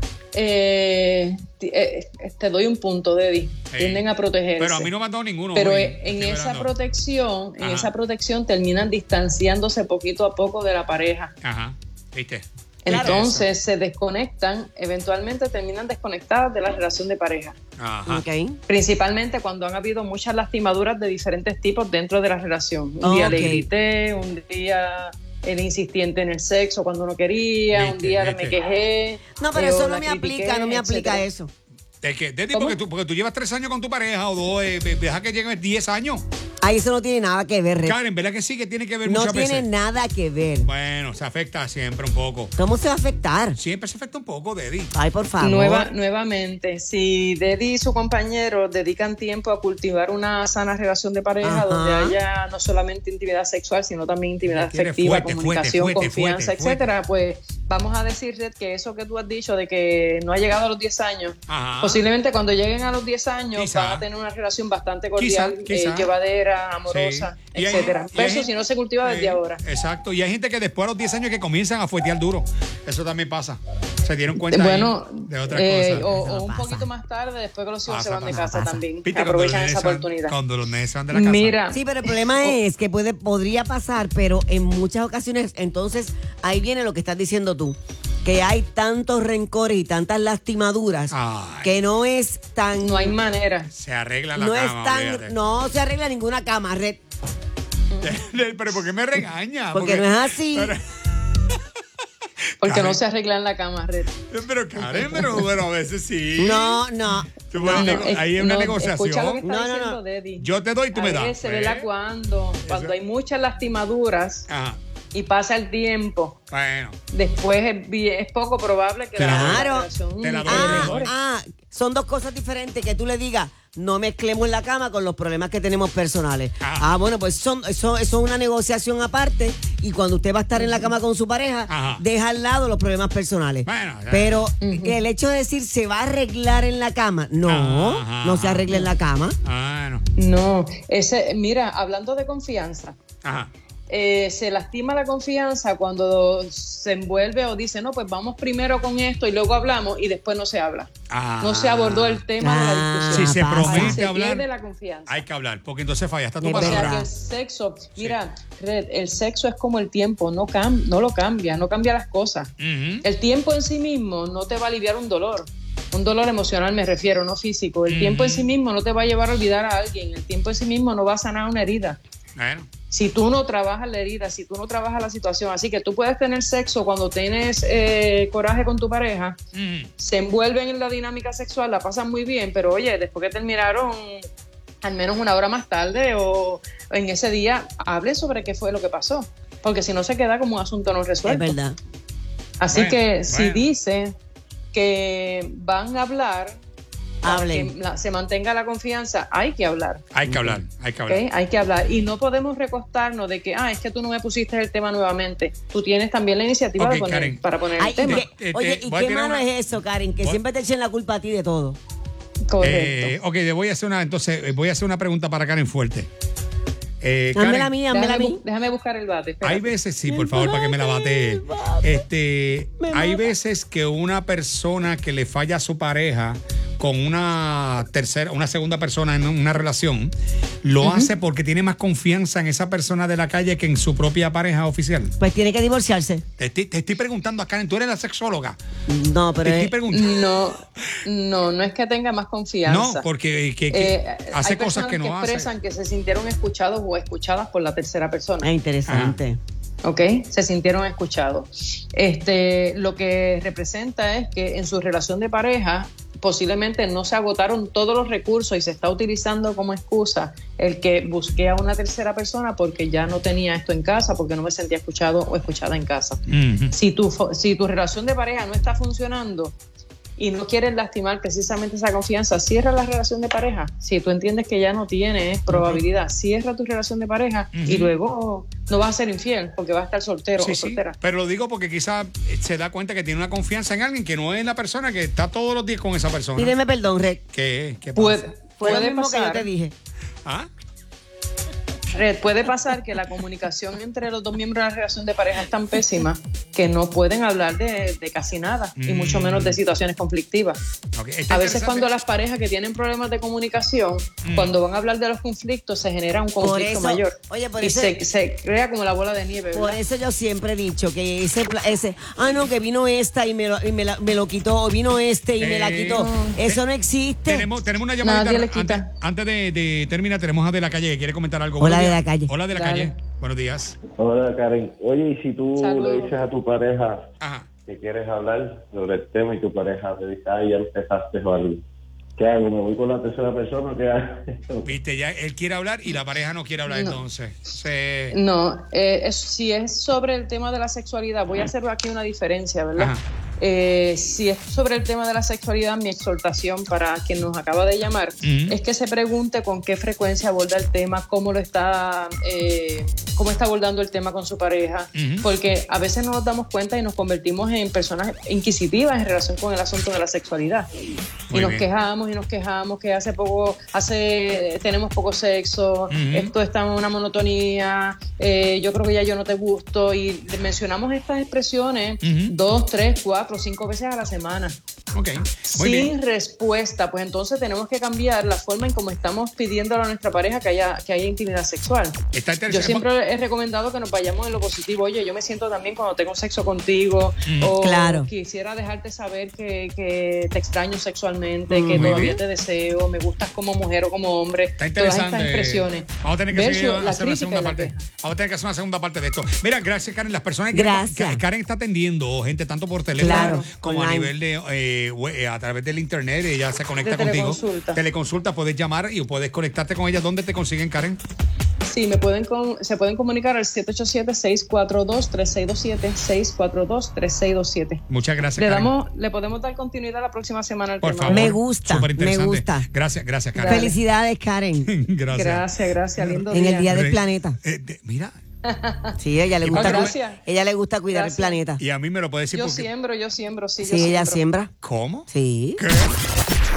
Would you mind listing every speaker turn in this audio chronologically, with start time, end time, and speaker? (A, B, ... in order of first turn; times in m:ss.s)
0:00.3-0:04.9 A
0:03.7-0:04.0 B
0:04.6-0:06.7 B
0:05.5-0:11.3 A
0:07.6-0:07.9 B
0:11.4-0:13.5 B
0:12.8-0:17.6 A
0:12.9-0:13.2 C
0:17.8-0:18.2 B
0:18.0-0:18.6 C
0:18.7-0:31.2 A
0:23.0-0:23.6 C
0:27.7-0:28.6 B
0:29.4-0:31.5 C
0:32.0-0:36.2 B
0:36.6-0:37.9 C
0:37.8-0:39.7 B
0:39.0-0:40.7 C
0:40.6-0:42.5 B
0:42.6-0:43.6 C
0:43.6-0:44.9 B
0:44.9-0:45.9 C
0:45.4-1:09.6 A
0:51.4-0:52.2 C
0:54.5-0:56.9 B
1:01.5-1:02.0 B
1:03.5-1:04.0 B
1:05.2-1:06.1 B
1:06.9-1:08.5 B
1:09.0-1:16.1 B
1:14.5-1:20.4 A
1:16.0-1:16.9 C
1:17.9-1:21.6 B
1:18.3-1:18.8 C
1:21.1-1:22.6 A
1:21.7-1:31.1 C
1:31.1-1:31.8 B
1:31.6-1:33.2 C
1:32.8-1:33.7 A
1:33.7-1:35.3 B
1:34.3-1:37.0 C
1:38.0-1:41.6 B
1:39.7-1:40.7 C
1:42.6-1:43.0 B
1:42.6-1:44.2 A
1:44.3-1:49.4 B
1:46.4-1:48.0 C
1:47.6-1:54.4 A
1:49.4-1:50.0 C
1:50.4-1:51.9 B
1:52.6-1:52.9 B
1:54.5-1:54.8 B
1:55.1-1:56.4 A
1:56.5-1:57.0 B
1:57.1-2:01.1 A
1:59.2-1:59.6 B
1:59.2-1:59.9 C
2:00.2-2:01.1 B
2:00.4-2:19.4 C
2:06.6-2:06.9 B
2:10.5-2:10.9 A
2:11.7-2:12.0 B
2:13.6-2:14.5 B
2:14.6-2:15.0 A
2:17.4-2:18.7 B
2:19.4-2:20.0 B
2:20.2-2:22.9 A
2:23.2-2:23.5 B
2:23.9-2:35.2 A
2:31.1-2:32.2 B
2:32.4-2:34.0 C
2:33.1-2:34.4 B
2:35.1-2:37.0 B
2:36.4-2:37.0 C
2:36.5-2:42.5 A
2:42.6-2:43.0 B
2:43.0-2:52.0 A
2:47.9-2:48.5 B
2:52.4-2:52.7 B
2:52.9-2:59.4 A
2:59.5-2:59.9 B
3:00.0-3:04.2 A
3:04.8-3:11.6 A
3:11.2-3:11.8 C
3:12.6-3:14.1 A
3:12.7-3:13.6 B
3:14.7-3:16.6 A
3:17.2-3:17.7 C
3:17.2-3:20.0 A
3:20.1-3:21.2 B
3:20.3-3:20.6 C
3:21.1-3:28.2 A
3:26.8-3:27.4 B
3:27.8-3:31.8 C
3:28.0-3:29.4 B
3:32.5-3:33.1 A
3:32.6-3:36.1 B
3:37.0-3:37.7 B
3:37.3-3:38.4 C
3:37.9-3:39.7 A
3:39.4-3:50.1 B
3:40.1-3:42.0 C
3:42.8-3:43.3 C
3:50.6-3:55.1 B
3:50.8-3:51.1 A
3:55.2-3:56.2 C
3:56.4-3:58.6 B
3:58.9-3:59.7 C
3:59.4-4:00.1 B
3:59.9-4:03.1 A
4:02.7-4:05.5 B
4:03.7-4:08.5 A
4:08.4-4:09.4 C
4:08.9-4:09.2 B
4:09.8-4:29.5 A
4:26.3-4:26.7 B
4:30.2-4:41.0 A
4:37.5-4:37.9 B
4:40.4-4:46.5 B
4:46.4-4:47.2 C
4:47.3-4:48.2 B
4:48.0-4:49.5 A
4:48.6-4:49.7 C
4:51.9-5:00.6 A
4:58.8-4:59.6 B
5:00.9-5:01.9 B
5:01.3-5:09.8 A
5:04.2-5:04.5 B
5:06.4-5:07.9 C
5:09.5-5:17.5 C
5:15.4-5:16.6 B
5:15.9-5:16.4 A
5:17.3-5:23.7 B
5:18.0-5:18.9 A
5:21.6-5:22.7 C
5:24.0-5:27.0 D
5:25.6-5:26.2 A
5:27.2-5:27.5 B
5:27.7-5:31.6 D
5:32.2-5:34.6 D
5:34.6-5:38.2 B
5:36.7-5:37.0 A
5:38.1-6:00.7 A
5:42.8-5:43.0 B
5:48.2-5:48.6 B
5:54.9-5:55.2 B
6:01.3-6:01.6 B
6:01.3-6:14.5 A
6:05.9-6:06.3 B
6:12.0-6:12.3 B
6:14.9-6:15.9 B
6:15.5-6:22.0 A
6:22.1-6:22.8 B
6:22.5-6:37.8 A
6:27.3-6:27.5 B
6:27.6-6:28.1 C
6:31.5-6:32.2 C
6:31.7-6:32.2 B
6:34.6-6:51.0 B
6:40.5-6:41.2 C
6:43.0-6:44.1 C
6:43.0-6:43.5 A
6:46.8-6:47.8 A
6:51.7-6:57.8 A
6:57.9-6:58.7 B
6:58.4-7:01.3 A
7:00.8-7:03.7 B
7:01.1-7:02.6 C
7:03.4-7:03.8 A
7:03.4-7:04.7 C
7:04.6-7:08.1 B
7:05.1-7:06.8 A
7:06.3-7:07.4 C
7:08.4-7:09.0 A
7:09.0-7:11.6 C
7:09.4-7:09.9 B
7:09.5-7:10.2 A
7:10.9-7:11.4 A
7:11.6-7:12.7 B
7:12.3-7:14.2 A
7:13.6-7:14.5 C
7:14.6-7:15.9 B
7:15.1-7:15.6 C